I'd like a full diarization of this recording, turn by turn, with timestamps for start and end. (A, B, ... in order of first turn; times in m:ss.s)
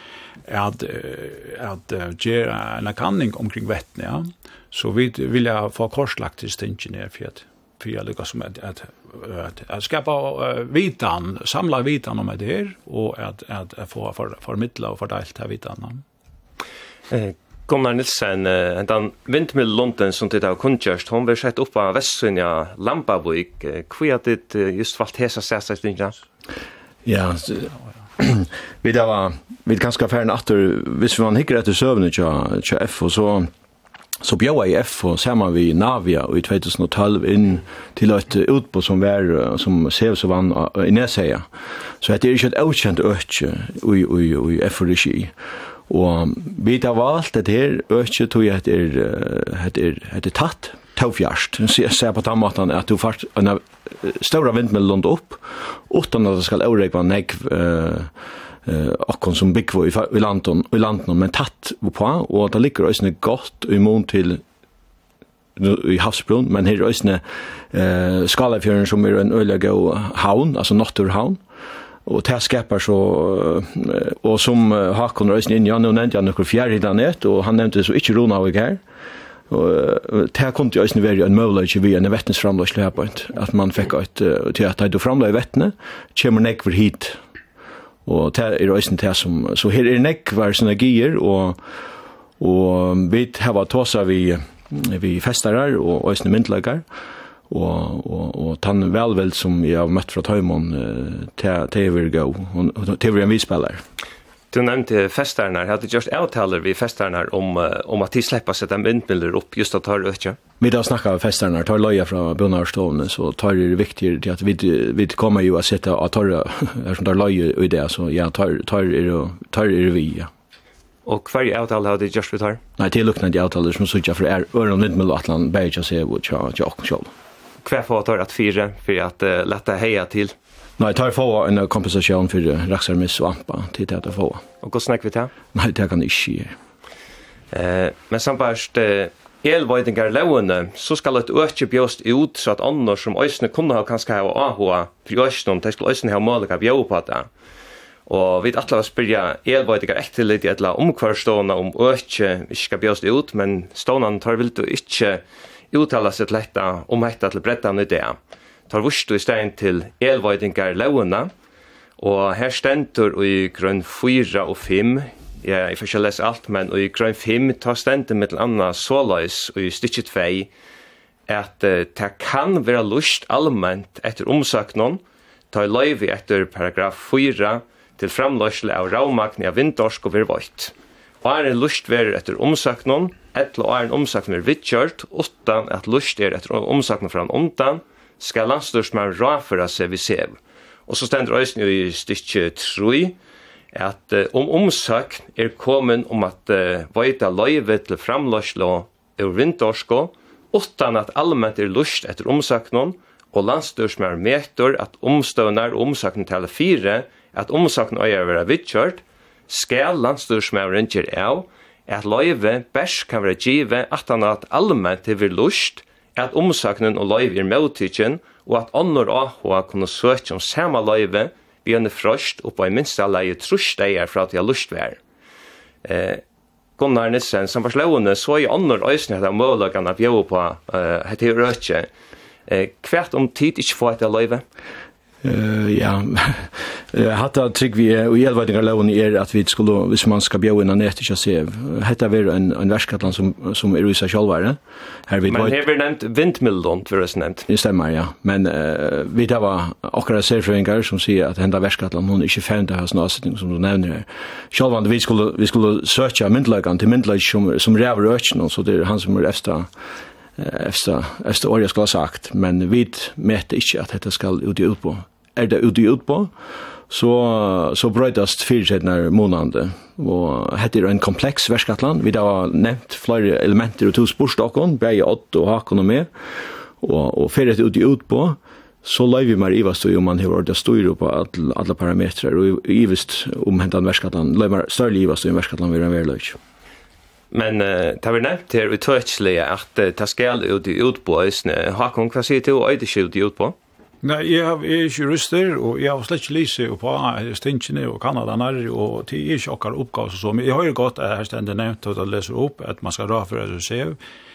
0:00.5-0:16.0 A
0:17.1-0:26.2 B
0:27.0-0:33.5 C
0:34.2-0:41.4 C
0:42.0-0:45.3 C
0:45.9-0:58.1 C
0:58.6-1:04.4 C
1:05.6-1:11.4 C
1:12.0-1:18.8 C
1:19.5-1:27.2 C
1:28.0-1:31.6 C
1:32.4-1:36.8 C
1:37.5-1:43.8 C
1:44.5-1:50.4 B
1:50.6-2:00.3 C
2:01.0-2:02.6 B
2:02.8-2:07.1 C
2:07.6-2:10.3 B
2:10.8-2:14.4 C
2:14.6-2:15.3 B
2:15.5-2:16.5 C
2:17.5-2:27.3 B
2:28.1-2:38.2 B
2:38.7-2:41.3 B
2:42.0-2:50.5 B
2:51.3-2:55.0 B
2:55.5-3:10.4 B
3:10.9-3:13.2 B
3:13.7-3:45.0 B
3:45.8-3:46.2 B
3:46.8-3:51.9 B
3:52.5-3:54.4 B
3:55.2-4:05.6 C
4:05.2-4:07.5 B
4:07.5-4:19.7 C
4:20.4-4:26.3 C
4:26.9-4:36.1 C
4:36.8-4:46.4 C
4:47.3-4:53.6 B
4:54.0-5:04.0 A